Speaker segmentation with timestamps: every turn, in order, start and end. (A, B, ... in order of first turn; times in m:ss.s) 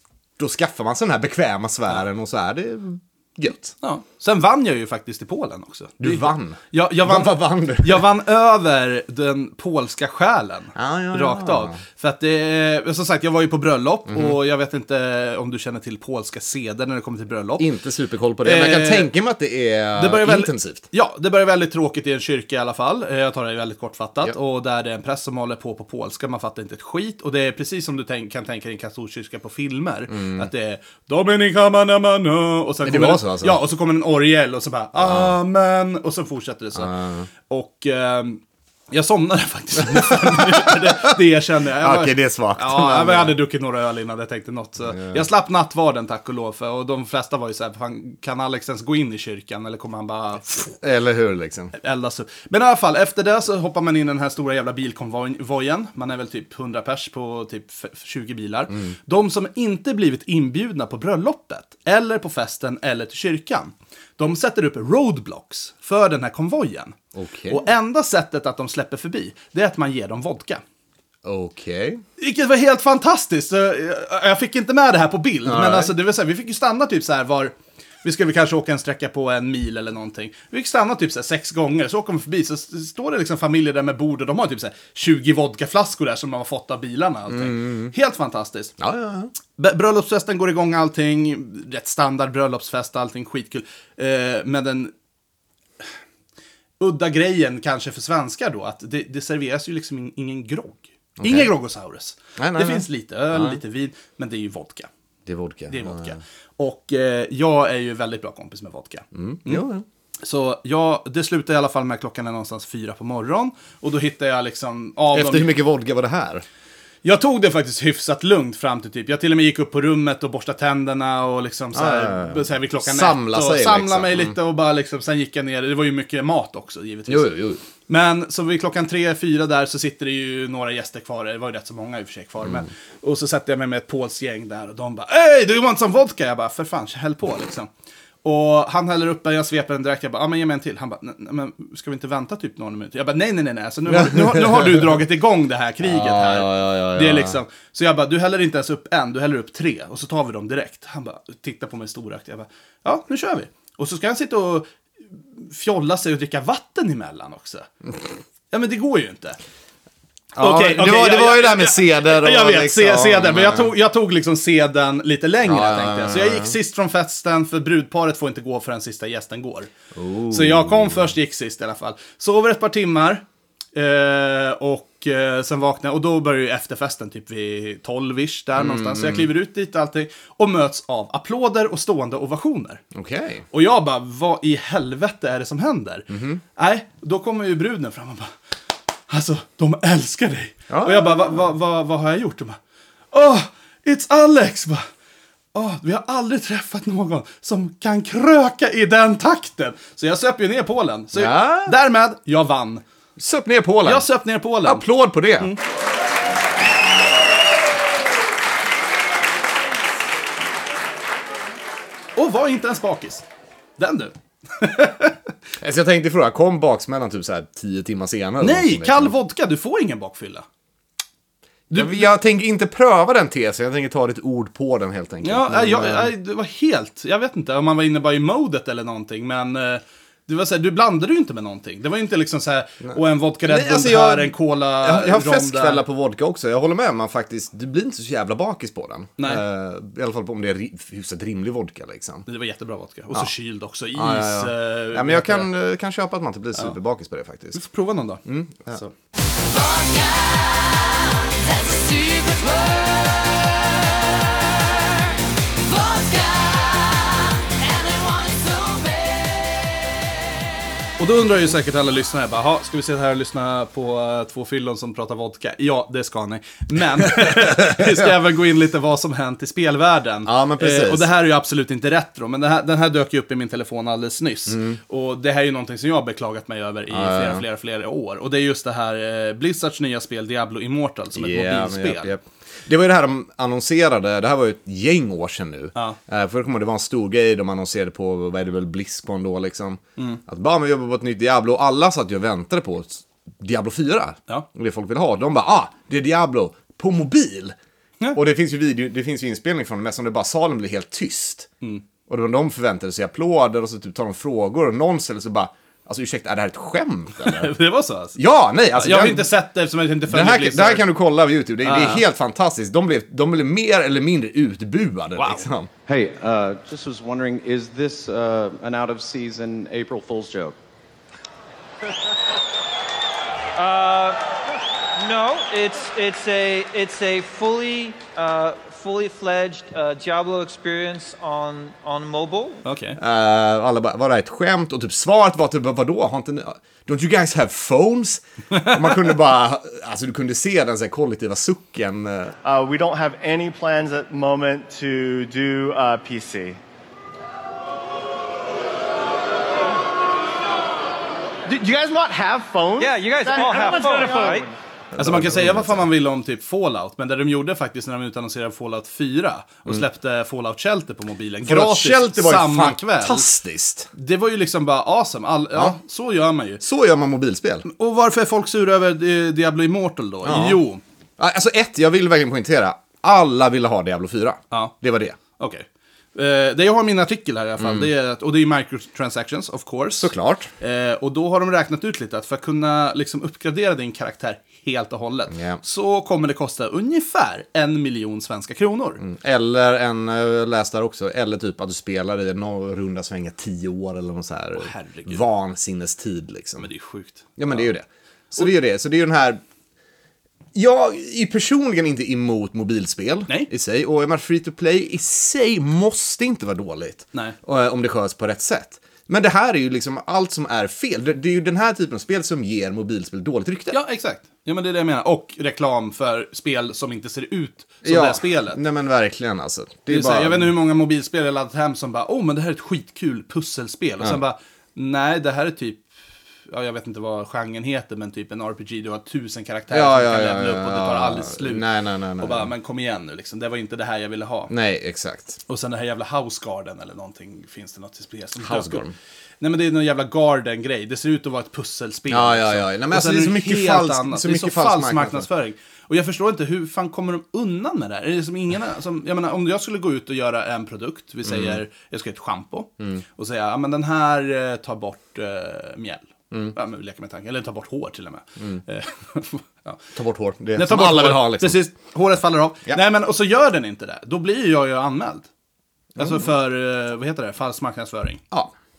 0:00.4-0:03.7 A
0:03.8-0:17.7 B
0:06.0-0:08.1 A
0:10.7-0:11.8 A
0:14.1-0:14.4 A
0:17.6-0:20.9 A
0:18.4-0:19.1 B
0:20.0-0:36.9 B
0:30.1-0:30.5 A
0:32.8-0:33.6 A
0:35.0-0:35.4 A
0:36.8-0:37.3 A
0:37.5-0:50.7 B
0:39.9-0:41.0 A
0:41.8-0:43.4 A
0:44.8-0:45.3 A
0:50.8-0:51.7 A
0:51.8-1:07.0 B
1:07.1-1:07.6 A
1:07.5-1:10.6 B
1:11.2-1:12.0 A
1:12.2-1:28.7 B
1:15.4-1:15.9 A
1:27.3-1:27.9 A
1:28.8-1:29.3 A
1:29.6-1:34.9 B
1:36.8-1:44.9 B
1:41.2-1:41.5 A
1:42.4-1:43.6 A
1:45.2-1:46.2 A
1:45.7-1:49.6 B
1:49.1-1:49.8 A
1:50.2-1:55.5 B
1:55.1-1:56.4 A
1:57.0-2:17.7 B
2:01.7-2:04.4 A
2:07.1-2:07.6 A
2:12.4-2:12.7 A
2:18.2-2:37.7 B
2:23.9-2:25.0 A
2:25.8-2:27.4 A
2:38.5-2:39.4 B
2:40.4-2:43.7 A
2:40.4-2:49.7 B
2:45.4-2:46.5 A
2:49.9-2:51.1 A
2:50.3-2:53.2 B
2:53.8-3:02.8 B
2:58.6-2:59.3 A
3:02.9-3:03.4 A
3:03.5-3:08.3 B
3:06.1-3:06.4 A
3:09.1-3:12.6 B
3:10.7-3:11.4 A
3:13.1-3:14.8 B
3:15.5-3:22.8 B
3:21.1-3:21.8 A
3:23.2-3:24.1 A
3:23.8-3:24.8 B
3:24.6-3:25.5 A
3:32.2-3:33.2 B
3:33.8-3:35.2 B
3:35.6-3:39.1 A
3:38.4-3:40.4 B
3:41.7-3:42.1 B
3:41.7-3:46.1 A
3:45.2-3:55.8 B
3:52.8-4:02.2 A
4:02.2-4:05.5 B
4:03.9-4:07.6 A
4:07.5-4:08.9 B
4:08.2-4:08.8 A
4:09.5-4:13.5 C
4:15.6-4:19.6 C
4:21.0-4:42.1 B
4:27.0-4:28.1 A
4:30.2-4:31.1 A
4:34.5-4:34.8 A
4:36.9-4:37.4 A
4:41.1-4:57.5 A
4:58.1-5:01.5 A
5:02.1-5:07.5 A
5:07.2-5:08.2 B
5:08.2-5:09.3 A
5:08.7-5:10.8 B
5:10.1-5:15.7 A
5:11.6-5:12.0 B
5:15.2-5:15.4 B
5:15.9-5:20.6 D
5:23.6-5:24.2 E
5:25.0-5:32.6 E
5:32.6-5:33.0 B
5:33.0-5:42.4 A
5:42.4-5:46.6 F
5:51.4-5:54.5 F
5:52.8-5:54.5 E
5:55.0-5:55.9 A
5:55.0-6:03.3 B
6:01.4-6:03.9 A
6:03.9-6:06.6 B
6:06.6-6:07.6 A
6:07.6-6:10.8 B
6:10.2-6:10.6 A
6:11.2-6:15.2 A
6:15.4-6:29.0 B
6:17.6-6:17.9 A
6:19.9-6:20.5 A
6:25.3-6:25.6 A
6:29.0-6:36.7 A
6:34.6-6:35.2 B
6:36.6-6:37.7 B
6:37.4-6:39.4 A
6:40.5-6:53.8 A
6:53.7-6:58.6 B
6:57.8-7:00.5 A
6:59.9-7:05.9 B
7:06.5-7:11.6 B
7:09.7-7:12.5 A
7:12.2-7:14.5 B
7:14.5-7:15.4 A
7:15.5-7:18.8 B
7:18.4-7:18.9 A
7:19.4-7:39.8 B
7:22.1-7:25.3 A
7:31.2-7:31.6 A
7:39.9-7:41.6 A
7:40.5-7:45.3 B
7:46.0-7:46.3 A
7:46.0-7:48.2 B